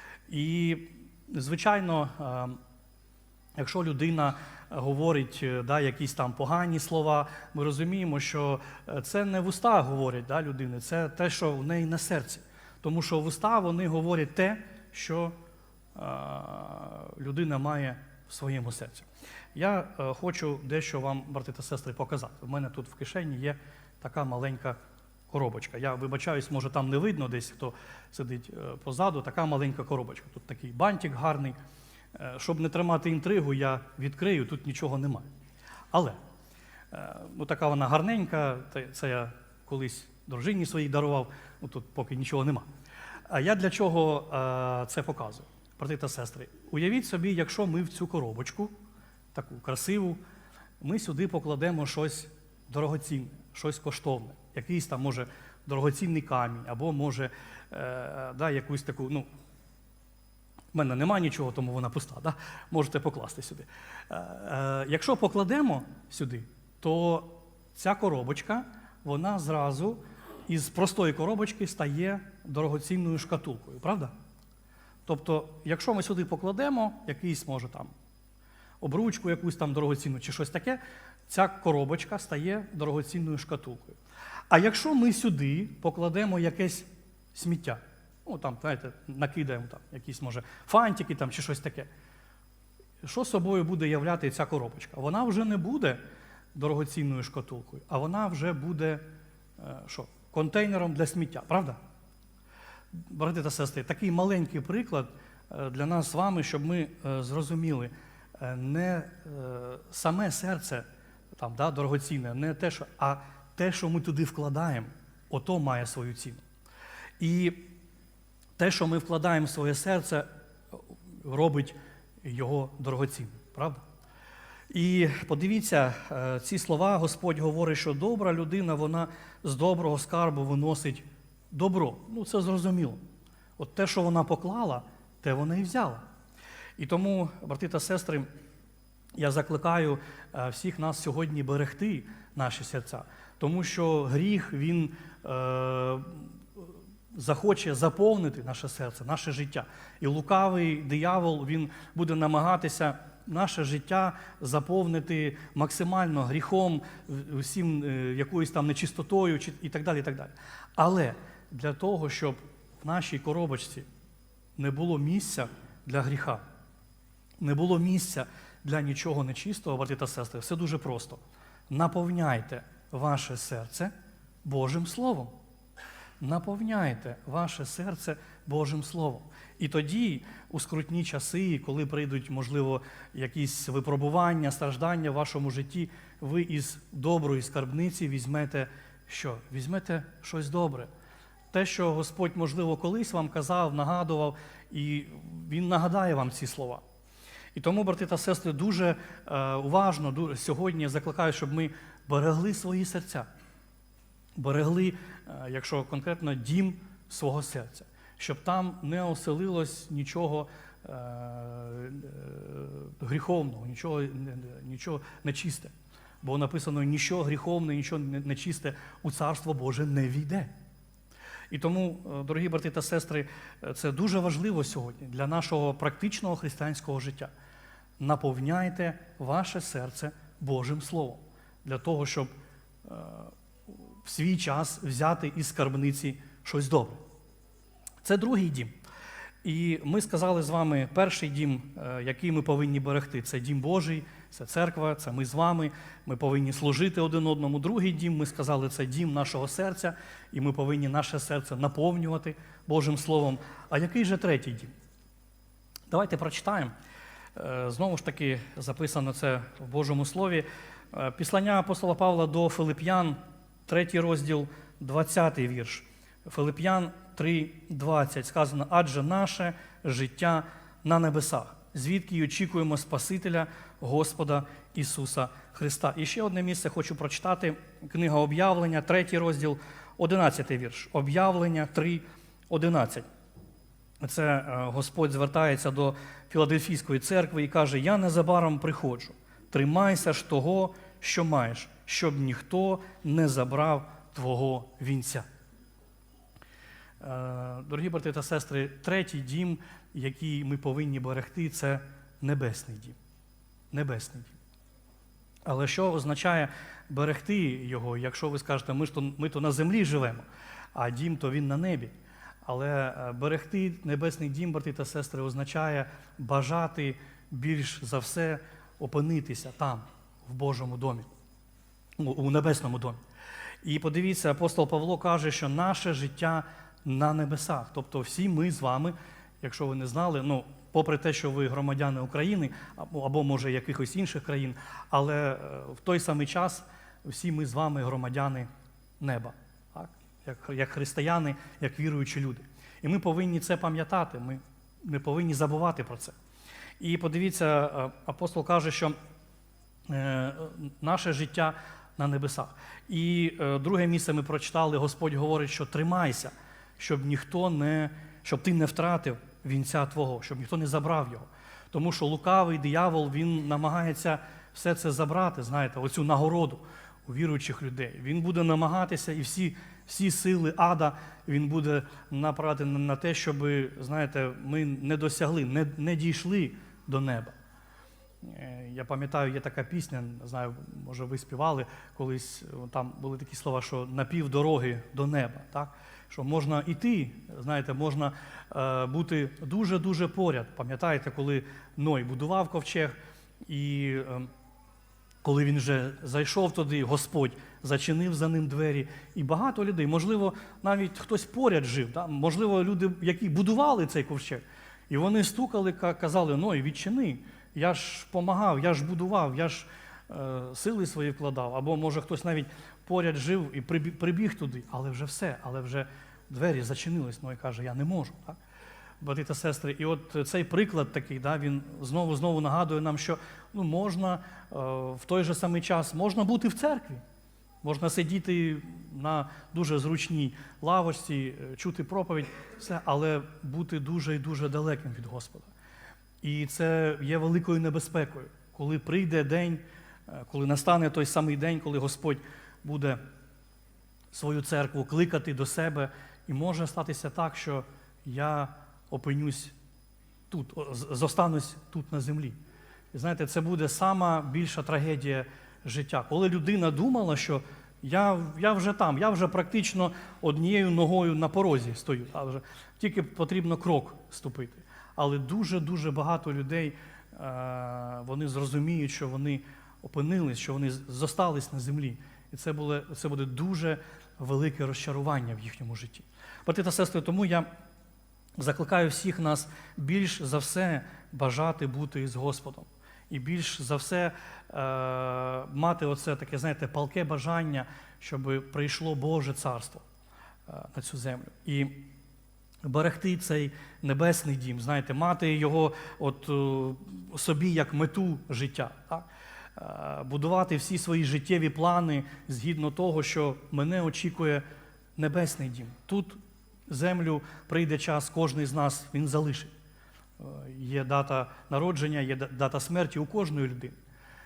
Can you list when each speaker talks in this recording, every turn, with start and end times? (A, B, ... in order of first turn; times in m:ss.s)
0:00.3-0:02.6 A
0:03.6-0:15.3 A
0:16.0-0:24.8 A
0:25.3-0:31.6 A
0:32.2-0:35.3 A
0:35.9-0:36.2 A
0:36.9-0:42.7 A
0:43.3-0:48.7 A
0:49.3-0:50.2 A
0:50.8-0:59.3 A
1:00.7-1:14.1 A
1:15.1-1:17.9 A
1:18.8-1:24.0 A
1:24.5-1:31.9 A
1:33.0-1:36.0 A
1:36.6-1:39.0 A
1:39.6-1:41.8 A
1:42.9-1:50.8 A
1:51.4-1:56.4 A
1:57.2-1:57.7 A
1:58.6-2:00.3 A
2:01.2-2:03.8 A
2:04.7-2:13.0 A
2:13.6-2:16.0 A
2:16.8-2:18.3 A
2:19.2-2:26.3 A
2:27.1-2:43.8 A
2:44.6-2:46.4 A
2:47.4-2:53.9 A
2:54.4-2:55.3 A
2:56.2-3:10.9 A
3:11.5-3:16.8 A
3:17.6-3:23.3 A
3:24.4-3:40.5 A
3:41.5-3:47.3 A
3:48.0-3:52.3 A
3:52.8-3:53.3 A
3:54.0-3:57.0 A
3:58.0-3:58.7 A
3:59.4-4:14.7 A
4:15.9-4:16.7 A
4:17.4-4:43.1 A
4:44.0-4:55.3 A
4:57.0-5:03.0 A
5:03.7-5:04.4 A
5:05.5-5:11.9 A
5:12.4-5:21.1 A
5:22.0-5:23.0 A
5:23.6-5:38.5 A
5:39.0-5:46.2 A
5:46.8-5:49.0 A
5:49.9-6:17.3 A
6:18.2-6:34.3 A
6:35.2-6:58.4 A
6:59.0-7:07.0 A
7:07.6-7:15.5 A
7:16.2-7:23.0 A
7:24.1-7:29.6 A
7:30.3-7:32.4 A
7:32.9-7:57.5 A
7:58.4-8:09.8 A
8:10.5-8:11.9 A
8:12.6-8:24.4 A
8:25.0-8:29.5 A
8:30.2-8:33.8 A